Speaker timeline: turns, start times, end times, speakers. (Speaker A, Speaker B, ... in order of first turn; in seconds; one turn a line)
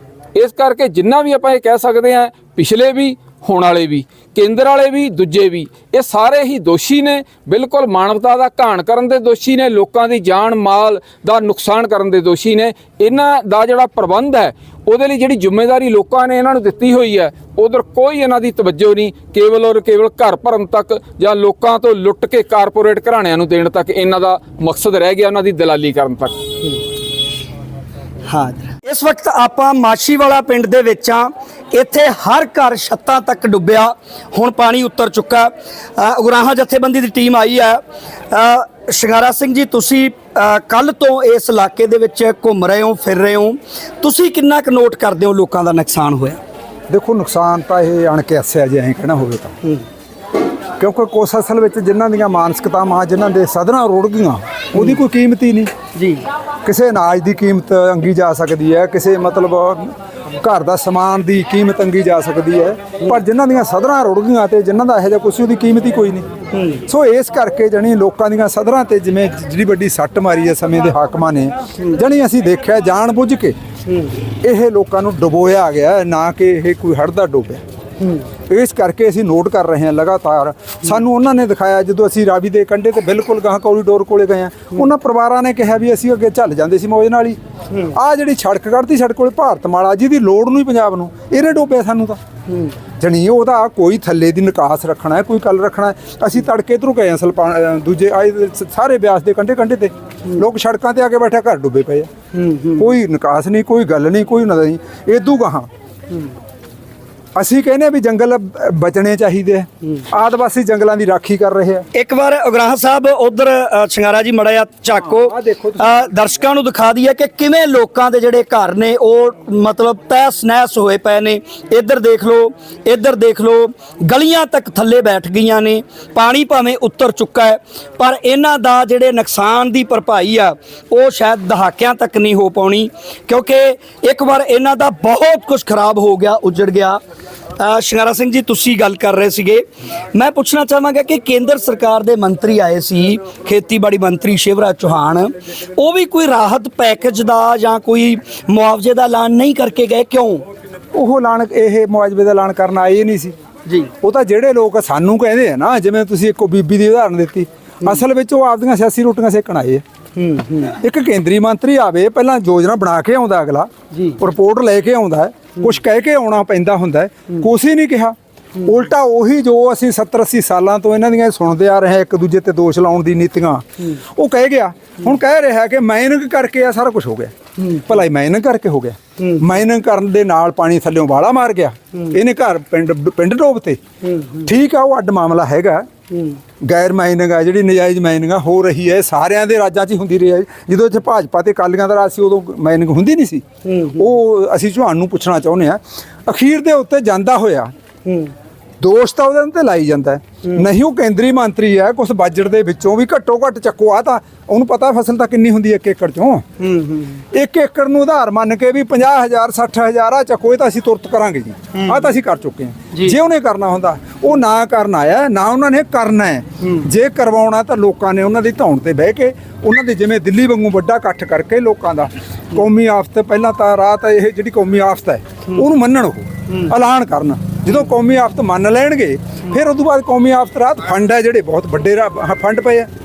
Speaker A: 0.3-26.4
Speaker B: 28.3-46.4
Speaker C: 46.9-49.5
Speaker C: 50.8-55.7
Speaker B: 56.0-56.2
Speaker C: 56.6-66.3
Speaker B: 66.5-66.8
Speaker C: 66.9-73.6
Speaker C: 74.4-77.6
Speaker C: 78.5-92.2
Speaker C: 93.0-102.1
Speaker B: 102.3-102.9
Speaker C: 102.8-105.7
Speaker C: 107.4-111.8
Speaker B: 111.9-137.0
Speaker C: 115.0-116.0
Speaker B: 137.6-139.6
Speaker B: 140.1-150.4
Speaker C: 150.9-153.3
Speaker C: 154.0-159.8
Speaker B: 160.2-160.8
Speaker C: 160.8-183.8
Speaker B: 163.9-164.2
Speaker B: 179.2-179.4
Speaker B: 184.1-184.4
Speaker C: 184.4-185.9
Speaker C: 186.6-193.4
Speaker B: 193.7-194.1
Speaker C: 194.0-197.7
Speaker C: 198.8-206.4
Speaker B: 206.6-207.2
Speaker C: 207.3-232.9
Speaker B: 211.7-212.0
Speaker B: 216.6-216.9